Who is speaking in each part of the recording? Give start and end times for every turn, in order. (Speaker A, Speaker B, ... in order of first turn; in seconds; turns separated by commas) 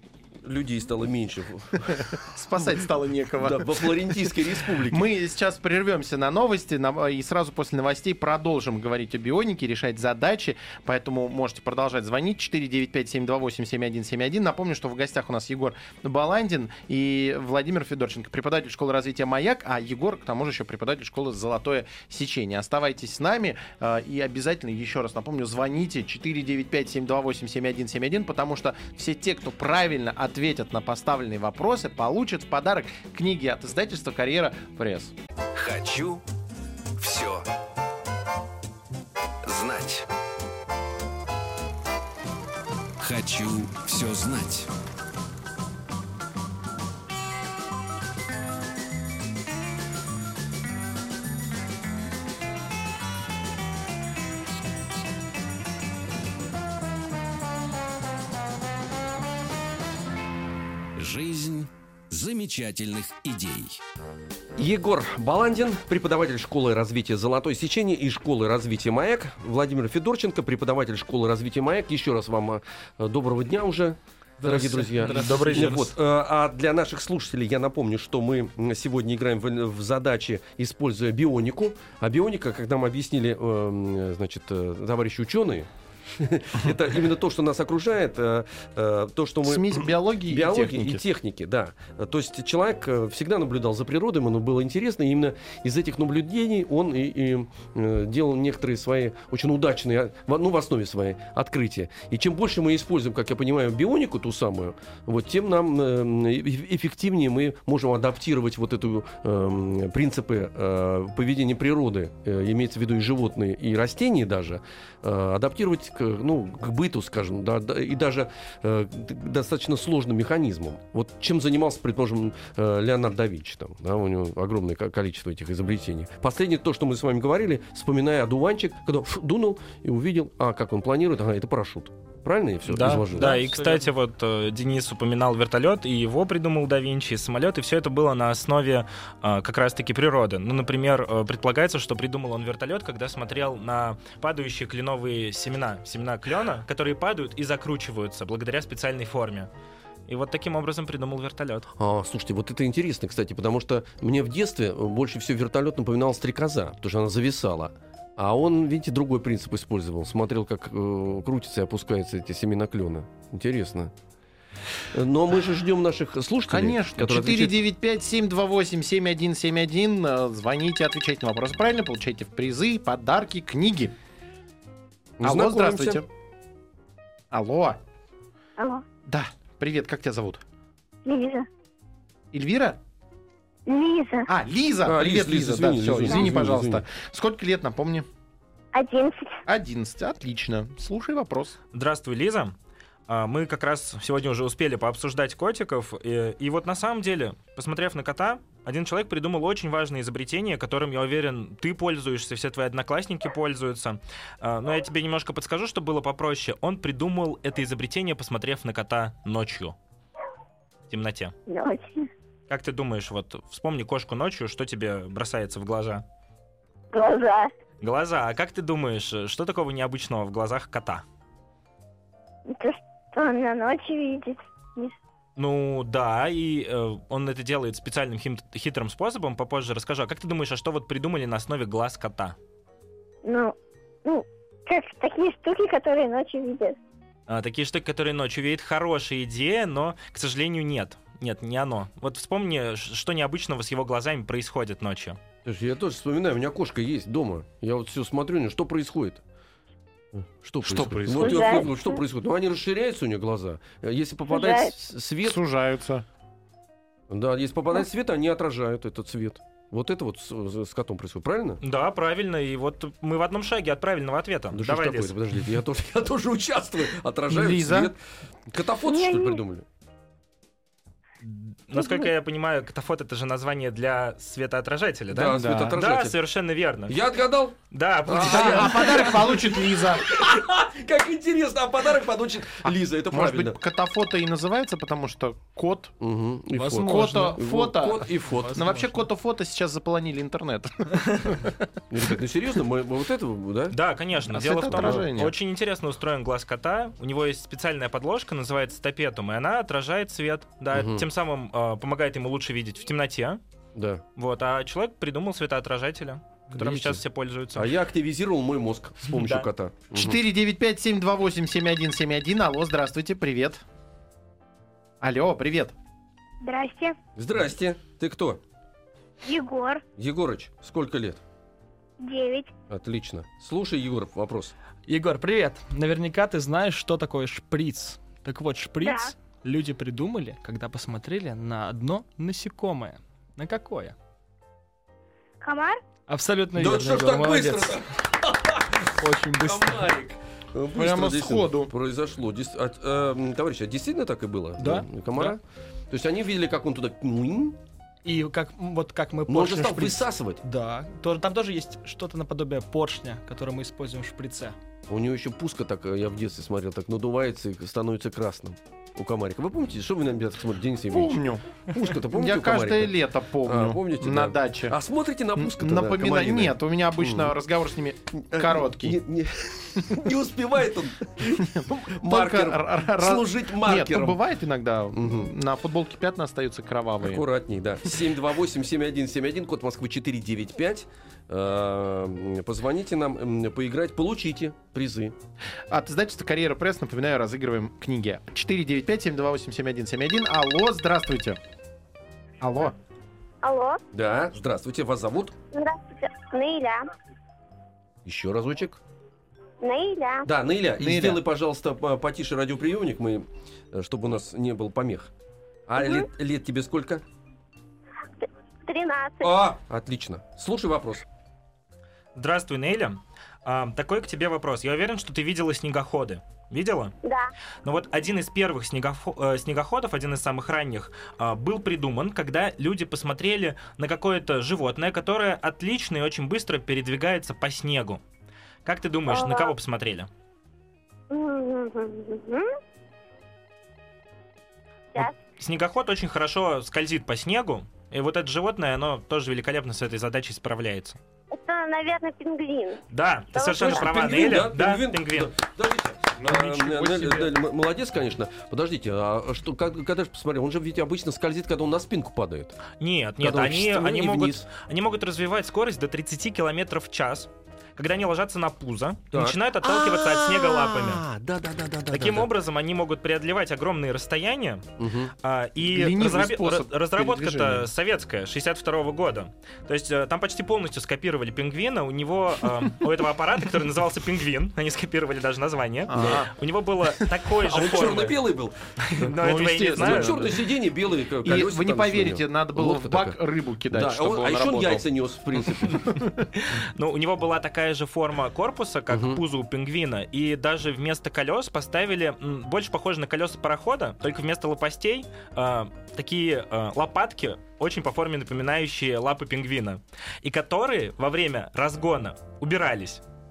Speaker A: 0.4-2.8, Speaker B: 1.9-35.1, Speaker A: 3.4-5.1, Speaker C: 35.5-36.2, Speaker C: 37.0-37.4, Speaker C: 39.4-40.1, Speaker C: 43.0-44.7, Speaker C: 61.0-63.8, Speaker A: 64.6-133.4, Speaker D: 74.4-75.9, Speaker B: 75.1-75.9, Speaker B: 89.4-91.0, Speaker E: 132.7-149.5, Speaker D: 133.0-133.9, Speaker E: 150.1-151.7, Speaker A: 151.8-163.9, Speaker A: 164.8-167.6, Speaker B: 166.5-173.9, Speaker A: 175.2-176.0, Speaker B: 175.2-176.1, Speaker B: 177.3-177.8, Speaker F: 178.6-178.8, Speaker B: 179.0-180.4, Speaker F: 181.0-181.5, Speaker B: 182.3-182.8, Speaker F: 183.7-184.3, Speaker B: 184.3-188.1, Speaker A: 184.8-186.8, Speaker F: 188.7-189.4, Speaker B: 189.4-191.6, Speaker E: 191.7-192.5, Speaker E: 193.1-209.8, Speaker E: 210.9-211.3, Speaker F: 211.5-212.1, Speaker E: 212.5-216.0, Speaker F: 216.9-217.5, Speaker E: 217.8-221.0, Speaker F: 222.5-224.9, Speaker E: 225.3-232.4, Speaker F: 233.2-236.8, Speaker E: 237.3-245.2, Speaker A: 245.4-249.2, Speaker A: 250.1-255.4, Speaker B: 250.6-251.7, Speaker F: 251.1-252.0, Speaker F: 254.3-254.7, Speaker B: 255.2-256.0, Speaker A: 257.1-261.6, Speaker E: 261.6-265.1, Speaker A: 264.5-269.6, Speaker B: 267.3-267.9, Speaker F: 268.9-269.4, Speaker E: 271.2-276.9, Speaker F: 271.8-272.0, Speaker A: 275.1-276.1, Speaker B: 275.3-275.8, Speaker A: 276.9-283.6, Speaker E: 277.7-279.2, Speaker B: 278.1-280.1, Speaker B: 282.6-285.9, Speaker A: 286.0-288.6, Speaker D: 286.6-287.4, Speaker B: 286.8-291.6, Speaker D: 288.2-289.1, Speaker A: 291.9-293.8, Speaker E: 293.7-303.4, Speaker B: 294.3-295.3, Speaker A: 294.7-295.0, Speaker A: 300.7-301.1, Speaker A: 303.7-304.0, Speaker E: 304.1-307.7, Speaker A: 306.5-307.0, Speaker A: 307.5-310.2, Speaker E: 309.1-309.4, Speaker B: 309.9-313.6, Speaker B: 315.0-315.7, Speaker F: 316.4-316.9, Speaker A: 317.1-318.4, Speaker F: 319.2-319.8, Speaker A: 320.0-321.2, Speaker F: 322.0-322.5, Speaker A: 322.7-324.5, Speaker D: 324.9-333.9, Speaker F: 328.8-329.1, Speaker F: 335.4-335.8, Speaker D: 336.1-337.8, Speaker A: 336.5-347.6, Speaker D: 338.9-339.9, Speaker B: 340.7-341.7, Speaker D: 344.6-345.4, Speaker D: 348.0-354.5, Speaker A: 349.3-350.4, Speaker A: 354.9-367.3, Speaker B: 360.9-361.4, Speaker B: 362.1-364.7, Speaker B: 365.4-369.0, Speaker A: 368.1-374.2, Speaker B: 371.4-377.2, Speaker A: 374.9-375.3, Speaker A: 377.0-385.1, Speaker B: 385.7-391.4, Speaker B: 392.4-392.8, Speaker F: 393.4-393.8, Speaker A: 393.9-395.3, Speaker F: 395.5-396.9, Speaker A: 398.0-398.8, Speaker F: 399.6-400.3, Speaker A: 400.2-405.1, Speaker B: 400.8-401.2, Speaker A: 405.7-407.0, Speaker F: 405.8-406.1, Speaker F: 408.2-409.3, Speaker A: 409.2-411.0, Speaker E: 412.1-416.9, Speaker F: 417.0-417.3, Speaker E: 417.6-428.0, Speaker E: 428.6-430.1, Speaker F: 429.1-429.5, Speaker F: 431.1-432.5, Speaker E: 434.9-441.0, Speaker F: 441.3-442.8, Speaker E: 442.9-445.3, Speaker F: 443.3-444.0, Speaker A: 443.4-452.6, Speaker B: 446.2-447.1, Speaker E: 446.3-447.2, Speaker E: 452.8-461.0, Speaker A: 453.2-454.4, Speaker A: 459.1-462.3, Speaker E: 461.9-464.6, Speaker A: 464.8-465.1, Speaker E: 465.2-478.2, Speaker B: 465.6-467.7, Speaker B: 475.9-476.3, Speaker A: 477.5-479.2, Speaker E: 478.9-480.2, Speaker B: 479.1-480.4, Speaker A: 479.8-483.2, Speaker B: 481.2-484.9, Speaker A: 483.7-486.0, Speaker B: 485.7-486.2, Speaker E: 486.3-503.0, Speaker A: 488.9-489.2